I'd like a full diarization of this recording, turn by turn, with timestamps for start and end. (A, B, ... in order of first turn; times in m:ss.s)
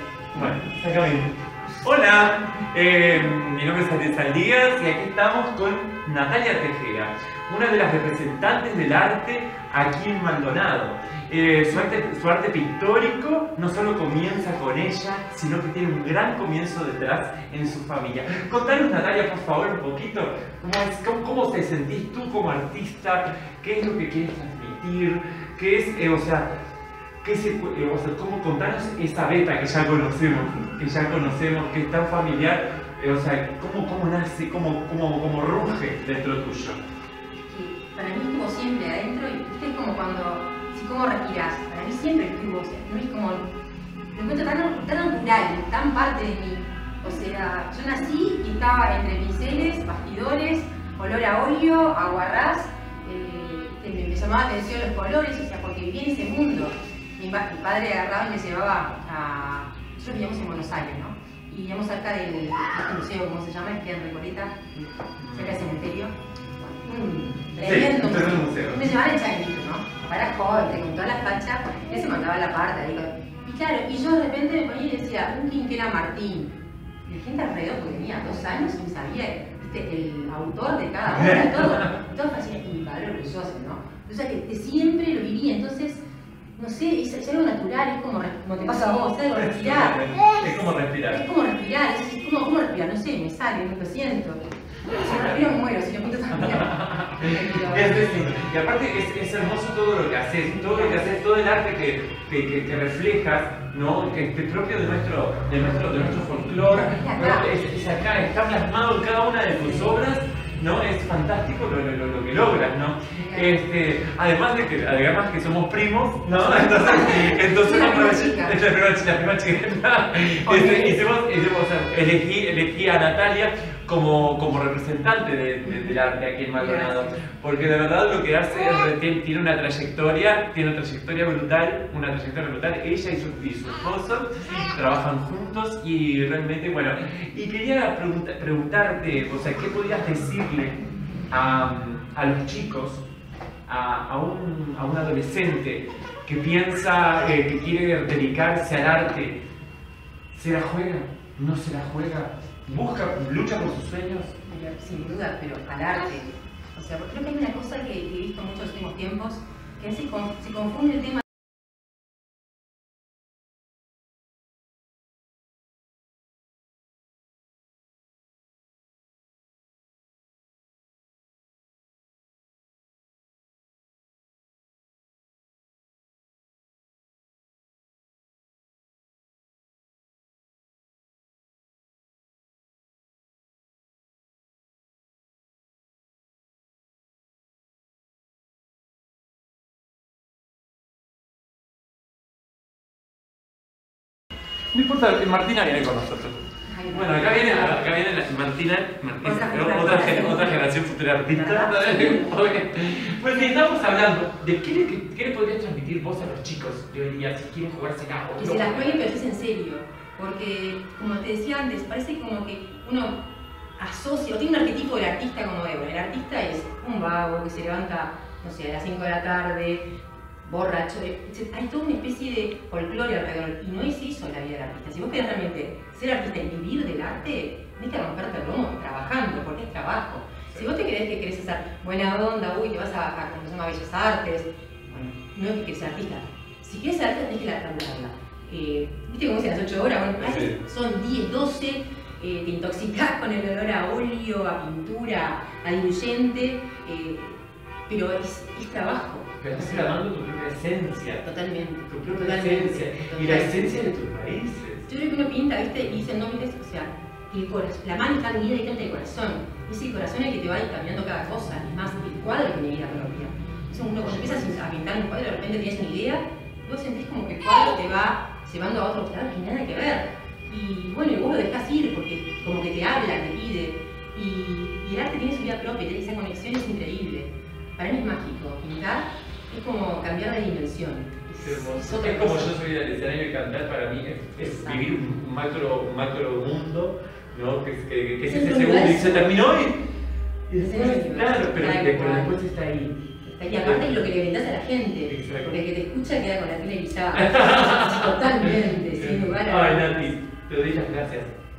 0:00.3-0:26.4 A
0:27.2-0:36.8 A
0:37.5-0:43.4 B
0:44.1-1:04.5 B
1:04.8-1:05.6 A
1:05.3-1:06.1 B
1:06.7-1:16.5 B
1:07.6-1:08.9 A
1:17.0-1:26.0 B
1:21.1-1:21.9 A
1:26.6-1:38.1 B
1:29.3-1:31.2 A
1:34.9-1:35.5 A
1:36.3-2:20.8 A
1:40.6-1:41.0 B
1:45.9-1:47.5 B
1:53.1-1:53.6 B
1:56.4-1:58.6 B
2:00.4-2:01.0 B
2:05.6-2:06.0 B
2:06.5-2:07.2 B
2:21.3-2:23.0 A
2:23.7-2:29.4 A
2:30.3-2:34.4 A
2:34.4-2:41.2 B
3:14.7-3:16.4 A
3:16.6-3:17.8 B
3:16.9-3:29.1 A
3:19.2-3:20.7 B
3:21.3-3:22.4 B
3:23.3-3:23.6 B
3:28.4-3:33.2 B
3:33.8-3:39.8 B
3:40.4-4:10.0 B
4:00.2-4:00.6 A
4:09.4-4:11.2 A
4:11.2-4:13.8 B
4:11.9-4:14.9 A
4:14.9-4:42.5 B
4:24.0-4:24.6 A
4:41.4-4:49.8 A
4:44.4-4:44.9 B
4:48.2-4:49.3 B
4:50.5-4:53.0 A
4:50.5-4:52.4 B
4:53.2-5:00.1 B
4:53.6-4:54.0 A
4:55.1-4:55.6 A
4:57.1-5:01.3 A